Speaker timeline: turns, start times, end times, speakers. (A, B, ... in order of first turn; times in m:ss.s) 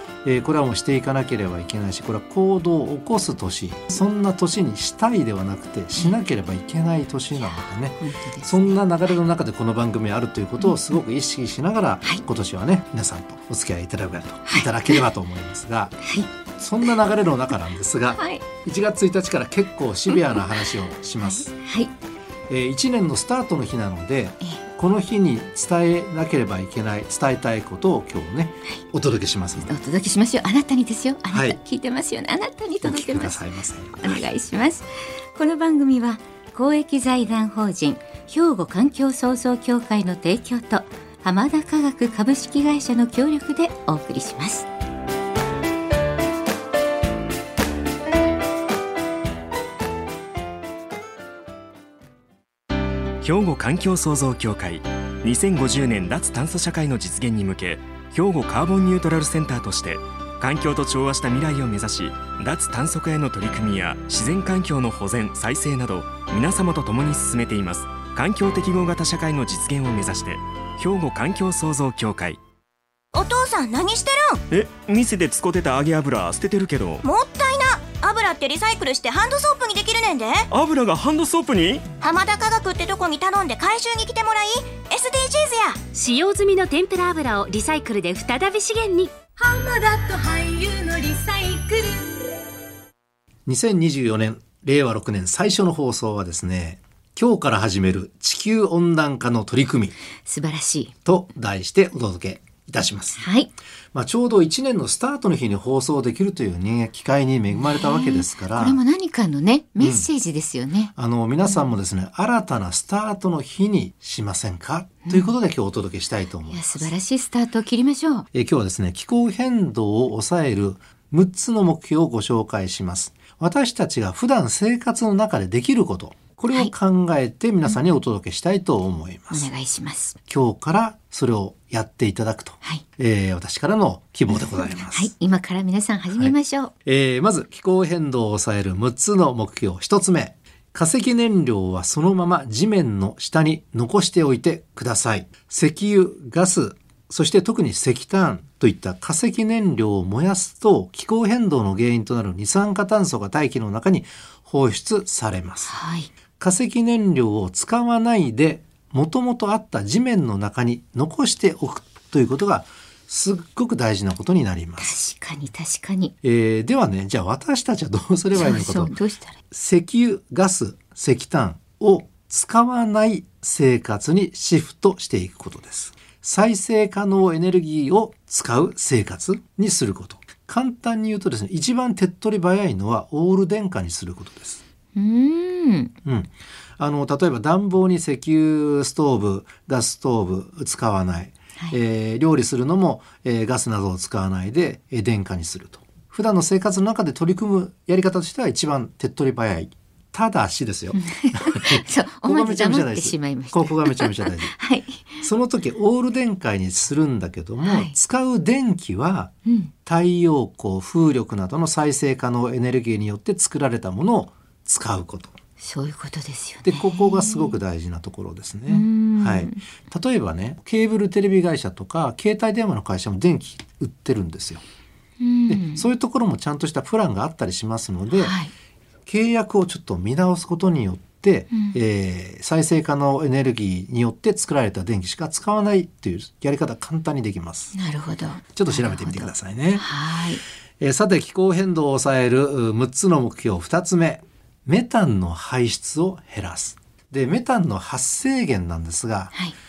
0:00.2-0:16.0 A
0:07.4-0:08.8 B
0:10.6-0:11.0 B
0:14.4-0:15.0 B
0:16.0-0:16.3 B
0:16.5-0:21.5 A
0:18.2-0:18.4 B
0:20.1-0:20.6 B
0:21.2-0:21.9 B
0:22.5-0:29.7 A
0:29.6-0:33.4 B
0:31.3-0:31.6 A
0:32.8-0:34.2 A
0:34.0-0:44.7 B
0:53.2-1:12.4 C
1:13.1-1:14.4 D
1:14.5-1:17.0 C
1:17.0-1:20.5 D
1:20.5-1:21.8 C
1:22.0-1:25.8 D
1:25.9-1:29.1 E
1:29.4-1:32.2 D
1:33.4-1:39.9 A
1:40.2-1:40.9 B
1:41.0-1:43.2 A
1:43.2-1:43.5 B
1:43.9-1:48.8 A
1:47.5-1:50.9 B
1:49.8-1:50.0 A
1:51.0-1:56.9 A
1:55.1-1:55.3 B
1:56.5-1:58.3 B
1:58.3-2:09.5 A
2:09.3-2:10.2 B
2:10.3-2:15.1 A
2:14.3-2:16.7 B
2:16.8-2:35.8 A
2:35.7-2:36.1 B
2:36.4-2:45.0 A
2:44.8-2:46.1 B
2:46.2-2:48.9 A
2:48.3-2:49.4 B
2:49.5-3:04.6 A
3:04.9-3:05.9 B
3:06.0-3:24.5 A
3:21.0-3:25.2 B
3:25.2-3:29.3 A
3:27.6-3:27.9 B
3:29.4-3:29.7 B
3:29.8-3:35.3 A
3:35.6-3:37.6 B
3:36.6-3:44.6 A
3:38.7-3:39.6 B
3:45.2-3:45.9 B
3:45.5-3:48.3 A
3:48.1-3:48.5 B
3:49.0-3:57.7 A
3:51.5-3:51.8 B
3:57.7-4:00.4 B
3:58.5-3:59.9 A
4:00.8-4:09.3 A